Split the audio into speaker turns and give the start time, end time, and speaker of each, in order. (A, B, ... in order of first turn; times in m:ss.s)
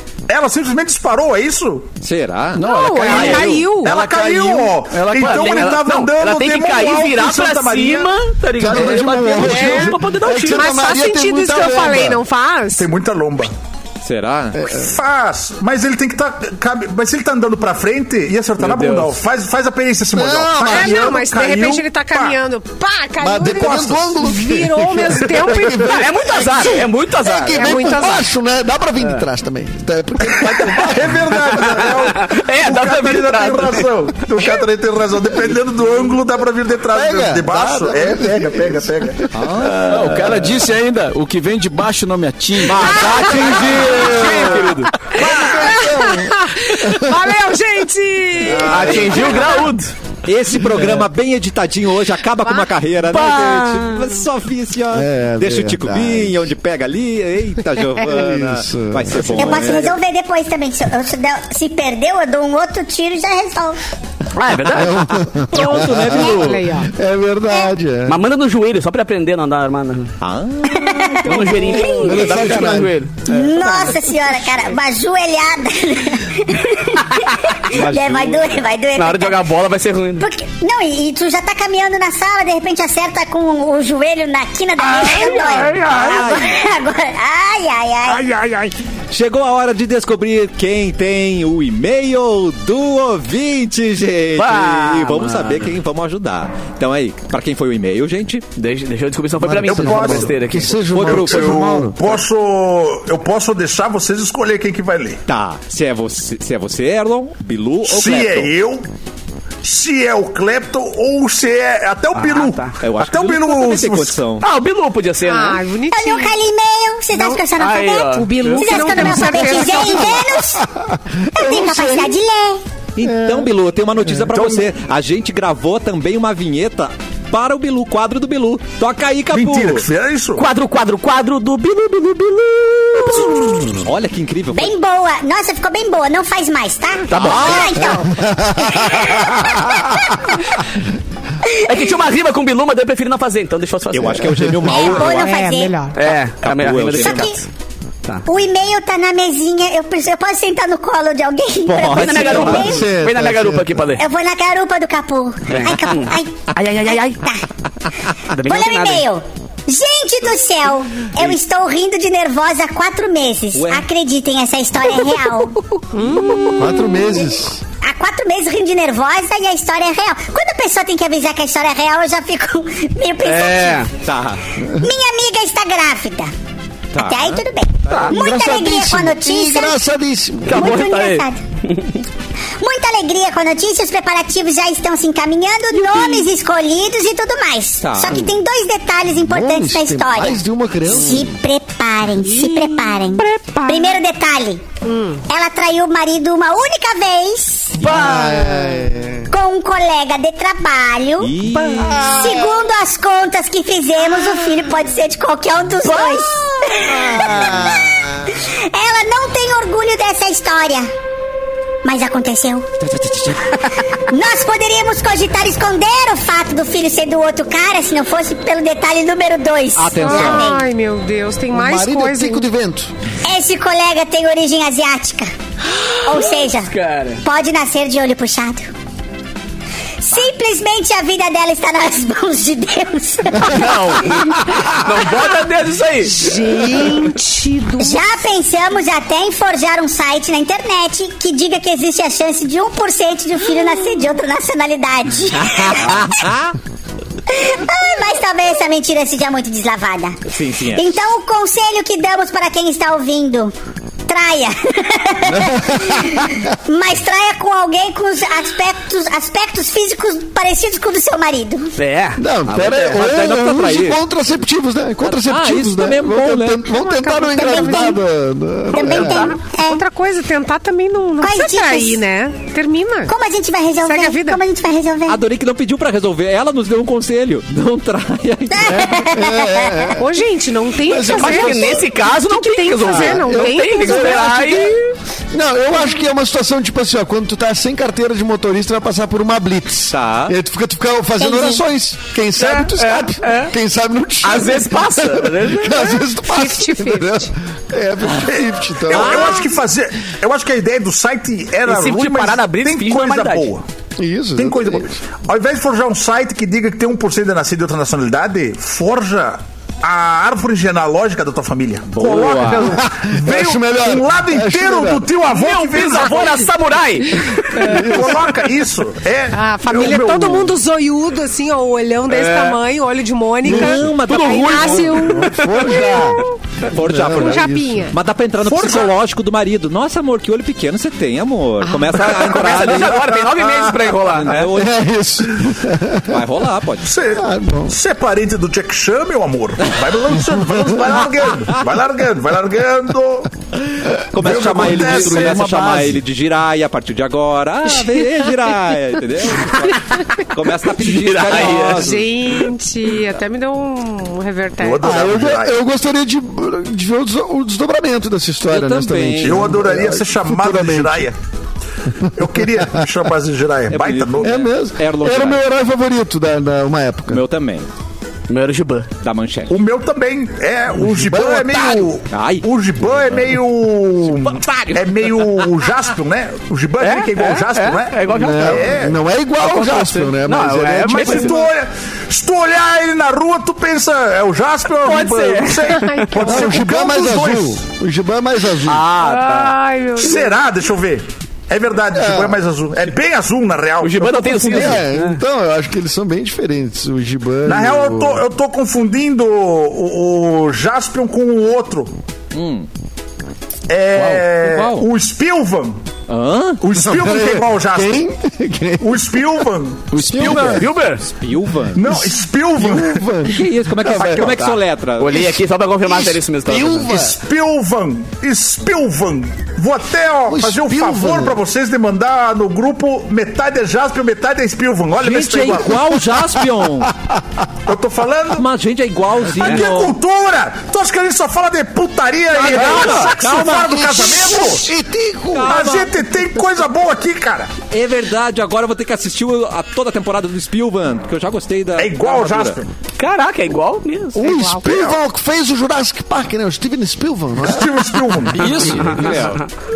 0:00.3-0:01.9 A
0:02.0-0:02.6 B
0:02.6-0:05.8 C
0:02.6-0:03.9 D
0:03.0-0:03.6 E
0:03.8-0:08.1 A
0:05.1-0:10.8 E
0:08.6-0:12.2 F
0:10.4-0:12.9 D
0:12.7-0:13.5 A
0:14.0-0:14.7 B
0:14.5-0:14.9 F
0:14.7-0:22.4 A
0:18.6-0:19.2 E
0:20.1-0:21.2 F
0:20.6-0:26.8 D
0:23.2-0:31.6 F
0:23.6-0:24.1 A
0:25.8-0:27.9 E
0:27.5-0:28.3 D
0:30.3-0:39.3 A
0:31.5-0:33.9 E
0:36.9-0:39.2 F
0:39.3-0:40.7 B
0:39.6-0:44.9 C
0:42.6-0:44.6 B
0:42.8-0:49.6 D
0:43.8-0:44.6 F
0:44.1-0:44.8 E
0:45.1-0:47.4 F
0:48.4-0:49.6 B
0:48.7-0:49.9 E
0:50.2-0:59.9 B
0:50.5-0:51.1 F
0:53.1-0:54.1 E
0:54.9-0:56.5 F
0:58.0-0:59.7 F
0:59.3-1:03.8 G
1:04.3-1:05.2 E
1:04.7-1:08.2 F
1:05.5-1:06.7 B
1:05.6-1:06.9 D
1:08.1-1:10.1 E
1:10.2-1:11.0 B
1:10.7-1:12.1 G
1:11.1-1:13.9 E
1:11.8-1:13.0 F
1:13.2-1:19.5 G
1:17.7-1:18.6 B
1:19.0-1:20.2 E
1:20.2-1:28.3 G
1:24.9-1:26.2 E
1:25.8-1:26.6 B
1:28.2-1:28.7 E
1:29.1-1:38.4 B
1:34.4-1:35.7 E
1:38.6-1:40.8 E
1:39.4-1:42.1 F
1:39.6-1:40.4 A
1:40.9-1:41.6 B
1:41.0-1:45.2 A
1:45.3-1:48.5 B
1:47.8-1:48.9 A
1:49.6-1:54.2 A
1:52.1-1:52.8 E
1:52.8-1:54.5 B
1:54.4-1:55.6 E
1:55.2-1:56.4 D
1:55.9-2:00.6 G
1:57.1-1:57.4 D
1:57.6-1:59.6 E
1:58.0-2:00.3 D
1:59.7-2:02.2 F
2:01.3-2:02.6 G
2:03.0-2:09.8 B
2:03.0-2:03.5 F
2:04.3-2:04.7 A
2:09.3-2:10.4 A
2:10.3-2:13.7 E
2:13.7-2:14.7 B
2:14.5-2:20.1 G
2:17.1-2:17.7 E
2:17.1-2:18.0 B
2:17.8-2:20.2 F
2:21.4-2:21.9 G
2:21.6-2:24.5 E
2:23.9-2:25.3 B
2:24.3-2:24.5 F
2:24.6-2:25.8 G
2:24.7-2:26.0 D
2:25.9-2:27.4 E
2:26.4-2:27.3 B
2:26.9-2:27.4 G
2:28.2-2:32.8 G
2:31.6-2:32.7 B
2:31.8-2:34.0 E
2:32.2-2:33.9 F
2:34.0-2:37.4 G
2:35.5-2:37.2 E
2:38.3-2:39.0 E
2:38.4-2:45.6 G
2:43.5-2:43.8 B
2:45.9-2:47.0 D
2:46.1-2:46.5 E
2:46.6-2:47.6 F
2:47.8-2:53.9 G
2:53.2-2:53.9 E
2:54.0-2:54.4 B
2:54.6-2:54.9 F
2:54.8-2:56.3 G
2:56.9-2:58.2 B
2:57.0-2:59.8 G
2:58.1-3:00.8 F
3:00.5-3:02.0 E
3:00.5-3:01.4 G
3:02.6-3:14.6 G
3:07.8-3:08.3 B
3:09.2-3:11.4 F
3:13.2-3:13.5 E
3:13.6-3:13.9 D
3:14.8-3:15.2 D
3:15.3-3:17.8 G
3:17.8-3:19.3 F
3:17.8-3:18.7 E
3:19.3-3:21.4 G
3:21.2-3:22.2 B
3:21.7-3:22.5 F
3:22.0-3:30.9 G
3:25.8-3:26.6 E
3:26.8-3:28.3 F
3:31.8-3:32.7 G
3:32.8-3:33.6 B
3:34.1-3:40.7 G
3:39.8-3:40.5 B
3:40.0-3:42.5 D
3:41.5-3:42.9 F
3:43.2-3:45.3 G
3:45.8-3:47.2 E
3:46.0-3:48.7 G
3:50.0-3:54.3 G
3:53.4-3:56.5 E
3:56.0-3:58.0 D
3:57.8-4:06.1 G
4:05.4-4:06.5 B
4:07.3-4:13.5 G
4:10.3-4:10.9 B
4:14.1-4:21.7 G
4:15.2-4:16.5 F
4:21.8-4:23.0 E
4:22.2-4:29.4 F
4:22.6-4:24.0 B
4:25.0-4:26.6 B
4:26.6-4:28.0 D
4:27.3-4:28.0 G
4:28.7-4:29.8 G
4:28.8-4:33.1 D
4:31.2-4:32.0 G
4:33.1-4:35.2 G
4:33.8-4:34.4 D
4:35.0-4:38.9 B
4:38.5-4:39.9 G
4:38.6-4:40.2 F
4:40.0-4:44.4 D
4:40.8-4:41.8 F
4:41.0-4:44.9 E
4:42.8-4:44.8 F
4:45.3-4:59.4 F
4:49.9-4:50.3 B
4:52.4-4:53.5 E
4:54.2-4:55.9 E
4:55.7-4:57.3 D
4:58.3-5:03.6 A
4:58.9-4:59.4 B
5:01.6-5:03.6 E
5:04.0-5:05.0 F
5:04.4-5:16.5 A
5:11.9-5:12.8 B
5:12.6-5:15.1 F
5:15.3-5:18.0 E
5:17.6-5:18.2 F
5:17.7-5:20.6 A
5:19.3-5:26.3 D
5:22.1-5:22.6 E
5:23.4-5:23.9 F
5:23.4-5:25.0 B
5:24.1-5:26.1 E
5:24.9-5:26.2 F
5:26.7-5:33.0 B
5:26.8-5:27.9 F
5:27.1-5:28.0 D
5:28.4-5:28.9 A
5:31.9-5:34.5 E
5:32.5-5:34.2 A
5:34.2-5:34.8 B
5:34.5-5:36.2 F
5:36.1-5:36.9 B
5:36.8-5:43.3 A
5:37.1-5:37.8 F
5:44.1-5:52.1 B
5:44.2-5:45.5 A
5:44.7-5:46.0 C
5:50.8-5:52.5 E
5:51.5-5:55.2 D
5:54.6-5:55.6 A
5:54.8-6:01.1 F
5:58.5-5:59.6 B
5:59.2-6:01.2 A
6:02.1-6:04.3 A
6:03.7-6:05.4 B
6:04.2-6:07.2 F
6:07.1-6:07.6 B
6:08.3-6:08.9 E
6:09.0-6:09.6 B
6:09.5-6:19.0 A
6:10.7-6:11.9 F
6:12.1-6:13.3 B
6:14.1-6:15.7 E
6:16.8-6:18.7 E
6:18.1-6:21.4 F
6:19.4-6:21.5 E
6:20.8-6:27.4 A
6:24.8-6:27.5 E
6:25.7-6:26.7 D
6:26.1-6:28.8 F
6:28.6-6:30.0 E
6:29.0-6:30.3 D
6:30.0-6:34.8 A
6:31.9-6:32.4 F
6:33.8-6:35.2 E
6:34.5-6:38.2 F
6:37.4-6:42.0 A
6:42.3-6:42.7 B
6:43.7-6:45.8 A
6:43.9-6:44.2 C
6:44.4-6:44.9 B
6:46.1-6:46.6 B
6:46.6-6:48.0 A
6:46.8-6:49.2 F
6:48.8-6:49.9 A
6:49.9-6:50.6 C
6:50.0-6:50.7 F
6:50.3-6:51.0 E
6:51.1-6:51.8 B
6:51.7-6:53.0 A
6:51.8-6:54.5 F
6:53.3-6:55.3 B
6:54.3-6:57.1 E
6:55.8-6:57.2 F
6:57.0-7:05.9 A
7:00.3-7:01.4 F
7:05.0-7:06.9 B
7:07.6-7:08.5 A
7:08.3-7:10.0 B
7:09.3-7:14.7 A
7:12.3-7:14.3 B
7:12.5-7:15.6 F
7:15.3-7:15.9 B
7:15.5-7:17.5 A
7:17.7-7:22.6 B
7:21.8-7:22.7 A
7:23.0-7:24.2 E
7:24.1-7:28.2 F
7:24.2-7:24.9 D
7:27.4-7:28.7 A
7:28.3-7:29.4 C
7:28.8-7:29.5 B
7:29.1-7:29.4 E